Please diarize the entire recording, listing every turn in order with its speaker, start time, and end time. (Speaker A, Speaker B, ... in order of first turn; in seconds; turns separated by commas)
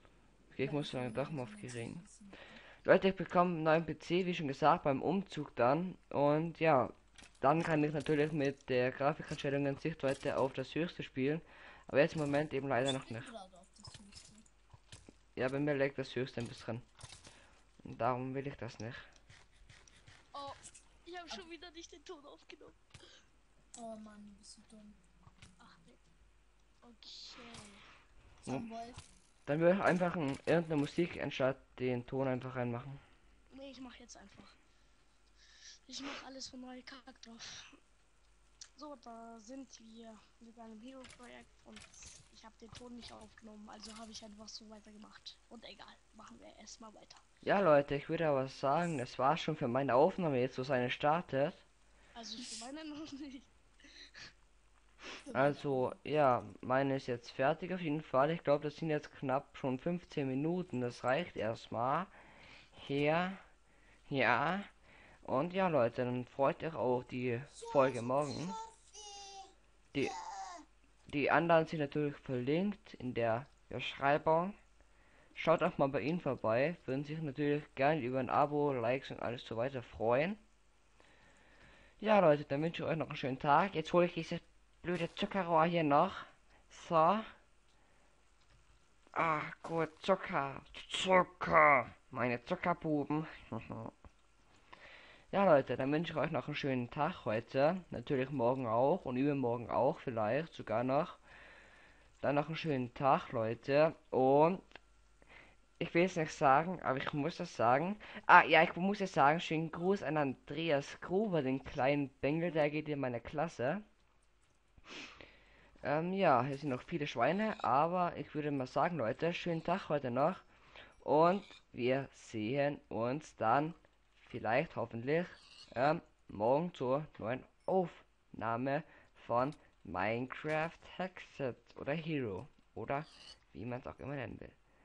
Speaker A: 0.5-2.0, Speaker B: 0.6-2.6, Speaker A: 2.8-13.3, Speaker B: 12.8-14.5, Speaker A: 15.4-16.9, Speaker A: 17.8-19.1, Speaker C: 20.3-22.8, Speaker B: 23.8-25.0, Speaker C: 25.6-26.0, Speaker C: 26.8-27.9, Speaker B: 28.4-29.1, Speaker A: 29.5-33.0, Speaker C: 33.5-34.6, Speaker C: 35.9-37.8, Speaker C: 38.8-47.2, Speaker A: 47.4-51.6, Speaker C: 52.1-54.2, Speaker B: 55.2-56.0, Speaker A: 55.3-62.1, Speaker A: 62.7-63.4, Speaker A: 64.1-64.7, Speaker A: 65.2-68.6, Speaker B: 67.5-70.7, Speaker A: 71.1-74.6, Speaker A: 75.4-80.4, Speaker A: 82.0-87.3, Speaker A: 89.1-93.9, Speaker A: 95.3-101.2, Speaker A: 102.2-104.6, Speaker A: 105.8-113.8, Speaker A: 115.8-120.5, Speaker A: 121.0-134.5